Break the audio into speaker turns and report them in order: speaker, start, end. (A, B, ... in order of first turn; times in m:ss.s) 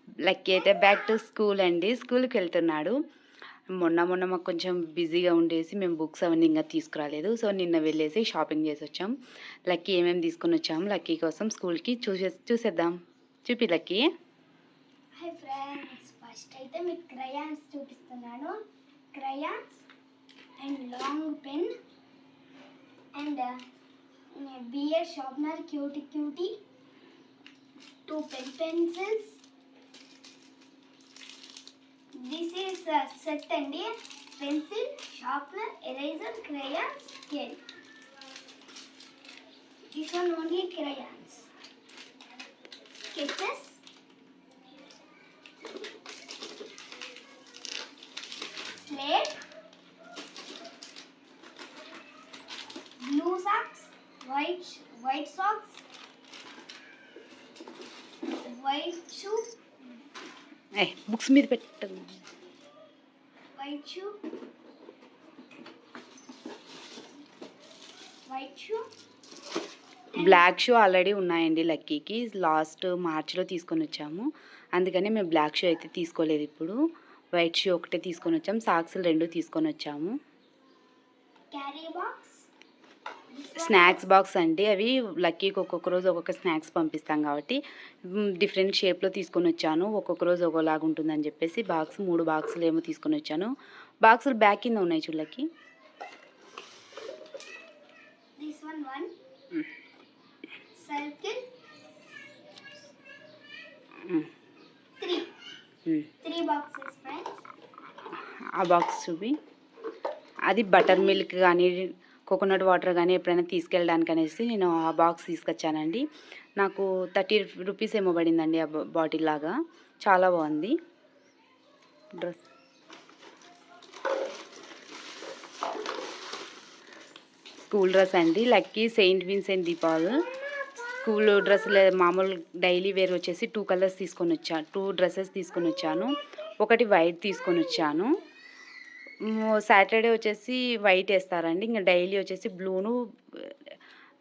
0:00.2-0:03.0 A
0:03.7-0:09.2 A
0:09.7-0:14.1 A
0:15.2-0:18.6 B
0:19.1-0:19.8 B
0:20.6-0:21.7 B
0:23.1-0:23.7 B
0:24.3-0:26.6 B
0:28.1-0:29.4 B
0:32.1-0:37.6 B
0:39.9-0:41.5 B
0:43.1-0:43.8 B
0:48.8-0:49.4 B
0:53.0-0:55.8 B
0:58.4-0:59.6 B
1:00.8-1:02.2 A
1:03.6-1:04.2 B
1:08.3-1:08.8 B
1:10.1-1:10.4 B
1:10.2-1:16.8 A
1:17.3-1:20.2 A
1:21.5-1:22.5 B
1:23.3-1:24.0 B
1:23.6-1:33.5 A
1:34.0-1:35.5 A
1:38.4-1:39.1 B
1:40.8-1:41.5 B
1:45.0-1:45.4 B
1:46.2-1:47.4 B
1:48.6-1:49.4 A
1:50.5-1:56.0 A
1:56.6-2:00.8 A
2:07.6-2:10.2 A
2:10.9-2:18.1 A
2:19.3-2:23.6 A